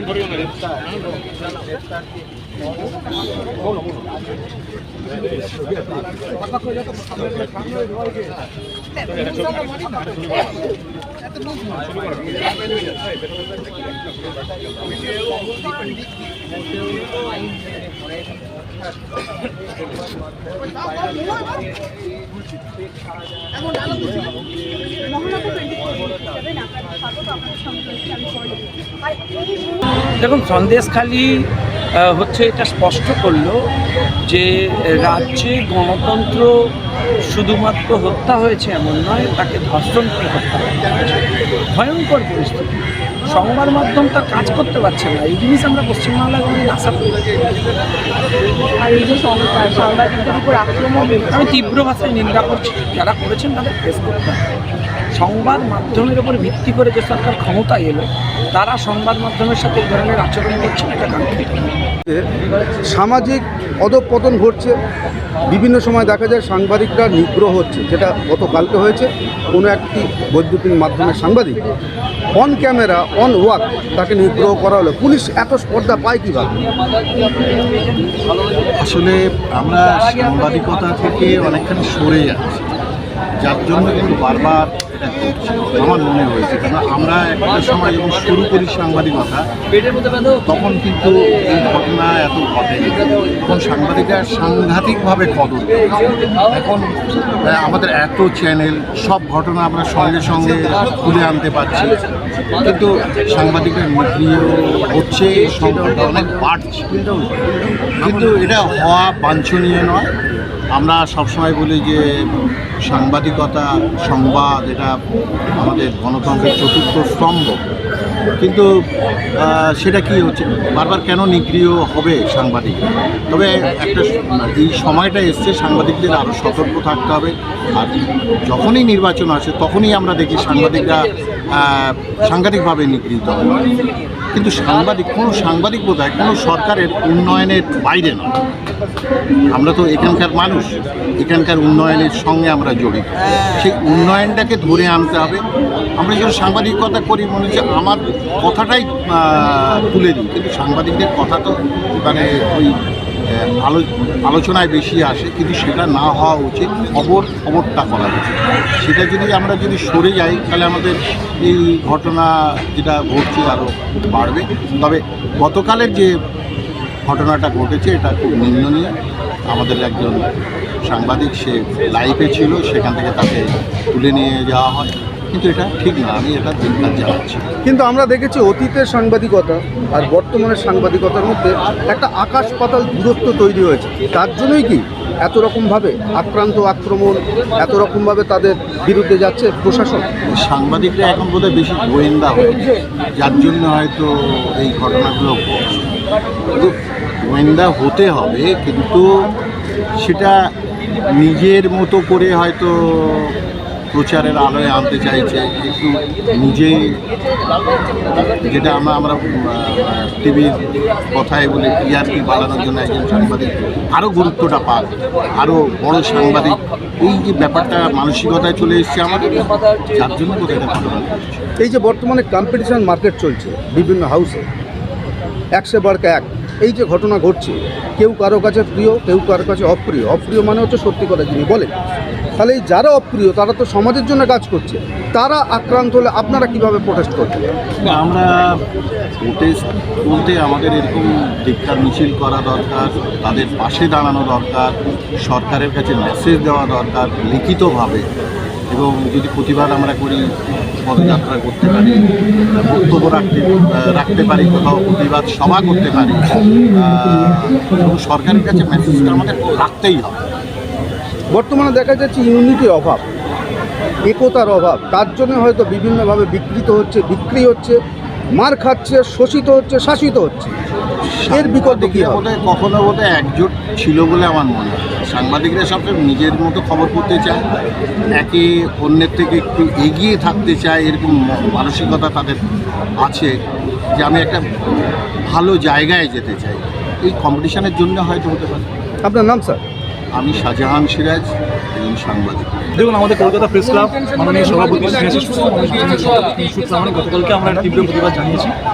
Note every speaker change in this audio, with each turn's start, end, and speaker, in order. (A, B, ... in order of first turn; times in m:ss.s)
0:26.3-0:28.7 A
0:30.2-0:33.6 B
0:34.3-0:36.5 B
0:37.3-0:41.2 B
0:41.7-0:47.3 B
0:48.8-0:51.1 A
0:51.0-0:54.4 B
0:55.1-1:01.6 B
1:02.9-1:04.8 C
1:05.5-1:11.6 C
1:12.4-1:16.6 C
1:18.8-1:22.7 D
1:23.4-1:29.4 D
1:30.5-1:42.1 D
1:42.6-1:46.9 D
1:45.6-1:46.2 C
1:46.9-1:48.4 C
1:48.0-1:50.1 D
1:50.8-1:52.0 D
1:52.9-1:55.0 D
1:55.6-1:57.6 D
1:58.4-1:58.7 D
1:59.4-2:13.6 D
2:14.3-2:18.3 D
2:19.5-2:25.4 D
2:26.0-2:32.8 D
2:33.3-2:46.1 D
2:47.1-2:48.9 D
2:49.5-2:50.3 D
2:50.9-2:57.4 D
2:57.6-3:10.0 C
3:10.3-3:15.9 D
3:16.4-3:19.3 D
3:20.0-3:20.5 D
3:21.1-3:23.4 D
3:23.9-3:27.0 D
3:28.1-3:41.4 D
3:41.6-3:44.4 C
3:45.6-3:51.7 C
3:52.4-3:57.5 C
3:57.8-3:58.5 D
3:59.2-4:08.1 D
4:08.7-4:10.2 D
4:10.8-4:20.2 D
4:21.3-4:23.0 C
4:24.1-4:27.8 C
4:28.4-4:30.5 C
4:31.1-4:37.4 D
4:31.3-4:32.2 C
4:38.2-4:42.4 D
4:43.0-4:43.3 D
4:43.9-4:44.4 D
4:45.3-4:48.8 D
4:49.0-4:49.6 C
4:50.2-4:52.7 D
4:52.8-4:58.6 E